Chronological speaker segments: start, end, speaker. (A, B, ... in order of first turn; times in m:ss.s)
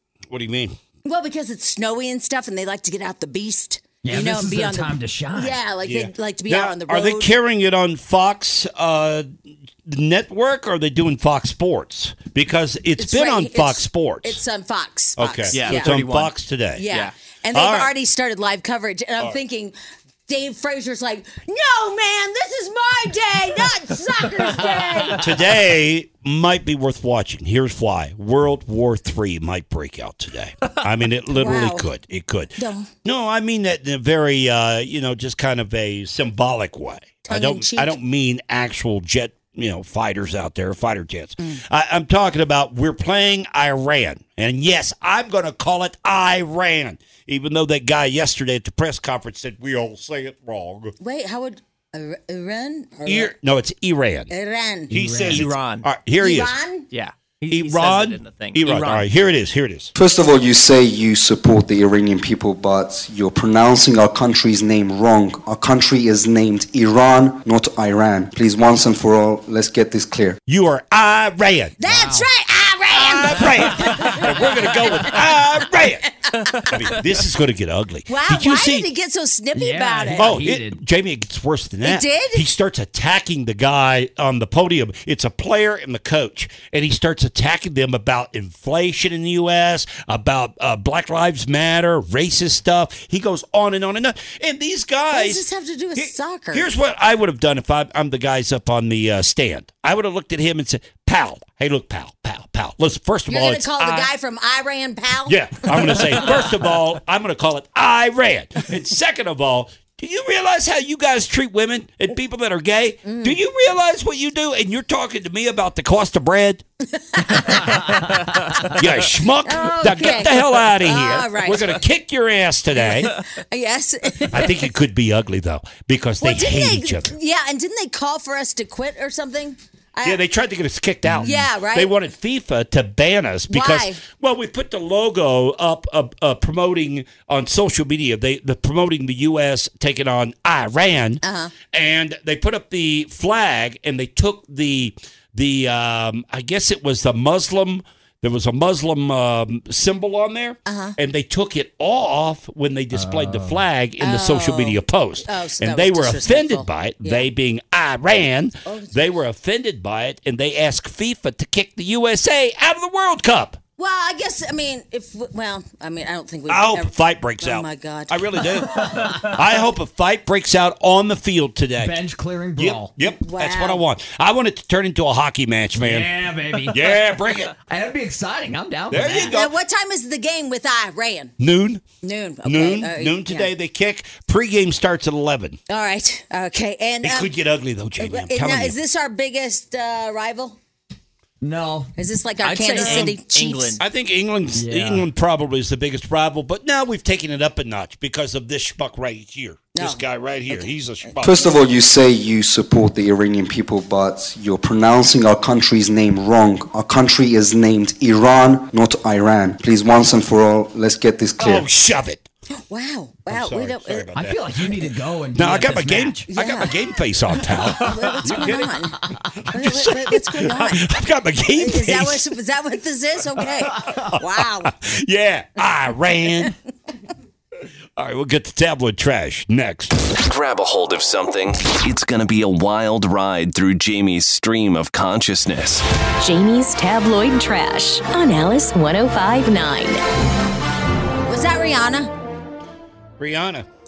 0:00.3-0:00.8 A
0:01.0-0:07.3 B
0:04.0-0:05.6 C
0:05.8-0:09.3 A
0:09.8-0:14.4 A
0:13.0-0:16.0 B
0:15.2-0:16.9 A
0:15.5-0:16.3 D
0:16.8-0:19.8 B
0:16.9-0:17.1 D
0:17.5-0:17.9 A
0:20.3-0:25.3 B
0:25.2-0:50.9 A
0:31.3-0:31.9 B
0:32.6-0:32.9 B
0:37.3-0:38.0 B
0:51.0-0:53.3 B
0:53.1-0:54.3 A
0:54.3-0:54.9 B
0:54.9-0:55.5 C
0:54.9-0:56.5 A
0:55.2-0:55.9 D
0:56.2-0:56.9 B
0:56.9-0:59.1 D
0:57.5-0:59.9 A
1:00.0-1:10.4 E
1:10.5-1:11.8 A
1:11.8-1:15.2 B
1:11.8-1:12.3 C
1:12.9-1:16.1 A
1:16.2-1:16.7 B
1:16.7-1:18.9 A
1:18.1-1:20.4 B
1:19.5-1:20.8 C
1:20.1-1:35.4 A
1:21.8-1:22.4 B
1:35.1-1:36.7 B
1:36.0-1:44.1 A
1:43.3-1:46.3 B
1:45.3-1:56.6 A
1:53.0-1:53.4 B
1:56.9-1:57.9 B
1:58.6-2:03.2 A
1:59.4-2:01.8 B
2:02.8-2:04.7 B
2:04.3-2:07.1 A
2:06.2-2:10.2 B
2:10.0-2:43.6 A
2:11.2-2:11.9 B
2:13.5-2:14.0 B
2:21.2-2:21.5 B
2:30.7-2:31.0 B
2:32.9-2:33.6 C
2:34.0-2:37.3 B
2:38.6-2:39.0 B
2:43.8-2:48.2 B
2:46.5-2:52.0 A
2:48.7-2:49.4 C
2:51.8-2:52.9 C
2:52.6-2:56.1 A
2:53.2-2:53.8 B
2:55.8-2:56.9 C
2:56.7-2:57.5 A
2:57.6-2:59.4 C
2:58.9-2:59.5 A
2:59.2-3:01.3 B
3:01.4-3:01.8 A
3:02.0-3:03.5 B
3:02.4-3:05.6 A
3:05.7-3:07.3 B
3:07.0-3:08.8 A
3:08.0-3:10.6 B
3:11.4-3:11.9 C
3:12.0-3:13.8 B
3:12.4-3:13.8 D
3:12.8-3:13.1 A
3:13.8-3:21.4 A
3:14.6-3:15.1 C
3:19.8-3:21.2 B
3:21.2-3:31.7 E
3:31.4-3:32.3 A
3:32.7-3:34.1 B
3:33.3-3:34.7 A
3:34.2-3:36.3 C
3:35.4-3:38.8 A
3:36.3-3:36.7 B
3:37.4-3:39.0 B
3:39.0-3:39.3 C
3:39.4-3:42.3 A
3:39.5-3:40.9 B
3:41.5-3:44.7 B
3:43.9-3:46.6 A
3:48.0-3:50.0 A
3:50.1-3:55.8 F
3:56.2-4:00.0 G
4:01.2-4:02.1 B
4:03.2-4:03.7 A